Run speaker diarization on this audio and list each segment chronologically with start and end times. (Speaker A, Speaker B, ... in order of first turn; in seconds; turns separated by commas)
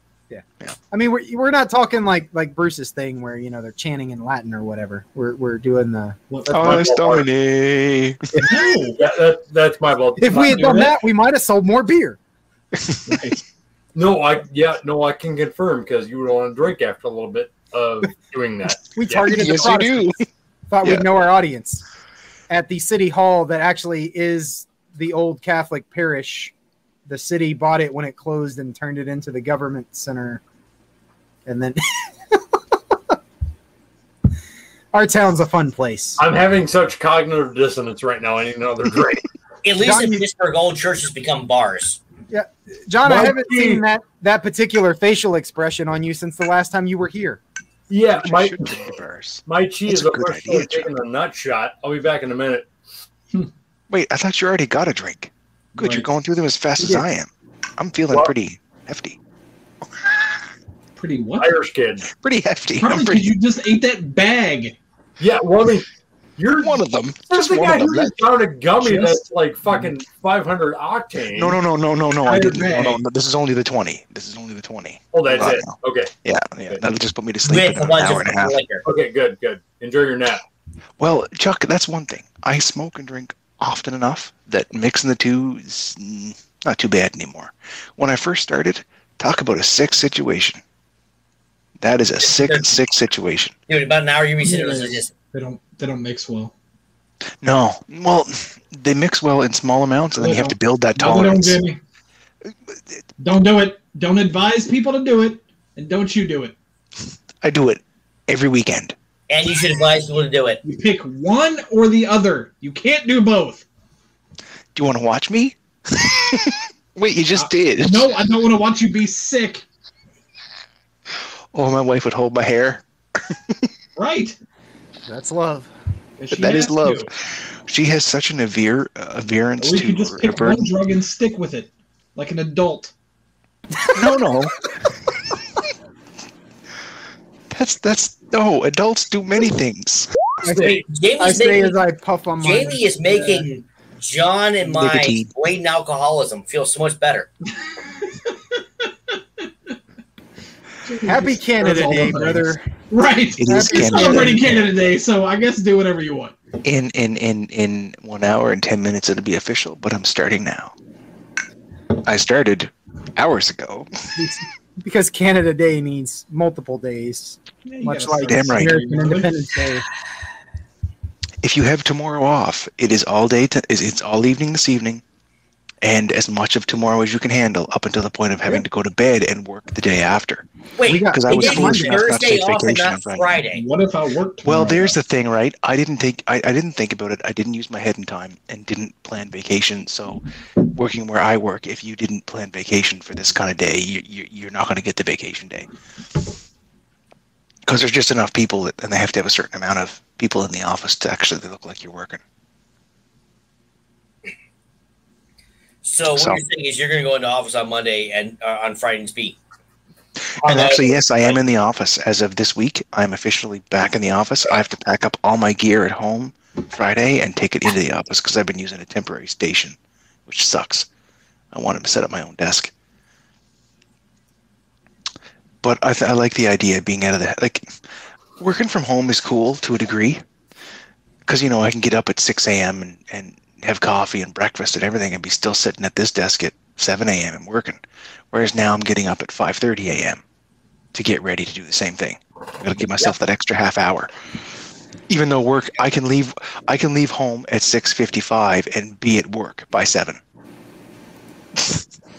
Speaker A: 0.3-6.2, Speaker B: 6.3-6.9, Speaker C: 6.5-7.3, Speaker D: 6.5-8.3, Speaker A: 8.3-8.6, Speaker B: 8.3-9.0, Speaker C: 9.0-10.9, Speaker A: 10.2-12.2, Speaker B: 10.3-11.0, Speaker D: 12.8-13.2, Speaker B: 13.1-13.4, Speaker C: 13.9-19.6, Speaker A: 18.9-20.1, Speaker D: 19.3-20.2, Speaker A: 20.7-21.8, Speaker A: 22.5-26.5, Speaker A: 27.1-30.4, Speaker A: 31.4-32.4, Speaker A: 34.9-36.2, Speaker C: 36.2-39.2, Speaker E: 39.6-42.0, Speaker A: 39.8-40.2, Speaker A: 42.3-47.4, Speaker C: 43.0-43.8, Speaker C: 47.9-48.8, Speaker D: 48.2-50.9, Speaker C: 49.5-52.7, Speaker D: 53.9-59.2, Speaker B: 55.8-56.1, Speaker A: 56.8-57.0, Speaker B: 61.0-61.6, Speaker C: 61.4-62.1, Speaker D: 62.1-63.3, Speaker B: 62.8-64.8, Speaker C: 65.2-71.6, Speaker D: 66.6-68.2, Speaker B: 68.8-69.2, Speaker D: 71.3-78.5, Speaker B: 72.2-73.0, Speaker C: 75.1-76.1, Speaker E: 77.4-78.8, Speaker C: 78.8-80.4, Speaker D: 81.0-90.6, Speaker D: 91.8-93.5, Speaker E: 92.2-92.7, Speaker E: 93.7-95.1, Speaker B: 94.4-96.5, Speaker D: 97.4-101.6, Speaker B: 100.2-101.8, Speaker B: 103.2-106.5, Speaker D: 107.4-108.9, Speaker E: 109.3-110.6, Speaker B: 110.6-113.7, Speaker D: 114.7-118.1, Speaker B: 117.3-119.6, Speaker D: 121.5-123.7, Speaker B: 124.0-124.3, Speaker A: 125.1-125.7, Speaker B: 126.2-127.1, Speaker D: 126.3-127.1, Speaker D: 127.7-130.7, Speaker B: 129.6-132.9, Speaker D: 133.9-134.6, Speaker D: 137.5-140.1, Speaker A: 140.4-143.5, Speaker E: 140.6-141.8, Speaker E: 142.4-147.3, Speaker D: 144.6-145.3, Speaker B: 147.6-148.3, Speaker B: 149.1-149.4, Speaker B: 150.8-156.4, Speaker A: 151.0-152.7, Speaker D: 153.4-154.5, Speaker A: 153.5-154.6, Speaker D: 156.6-160.7, Speaker D: 162.0-163.9, Speaker A: 164.2-169.8, Speaker B: 167.6-169.3, Speaker D: 168.3-168.7, Speaker D: 171.4-175.0, Speaker D: 175.8-183.3, Speaker E: 180.8-183.6, Speaker A: 180.8-182.1, Speaker B: 183.5-184.9, Speaker D: 184.4-195.7, Speaker D: 197.7-202.2, Speaker E: 205.8-209.4, Speaker D: 206.1-206.4, Speaker D: 210.3-220.9, Speaker E: 210.4-211.3, Speaker D: 221.5-222.7, Speaker D: 225.6-227.7, Speaker D: 228.4-230.2, Speaker D: 231.3-240.2, Speaker D: 240.9-244.1, Speaker D: 245.1-250.2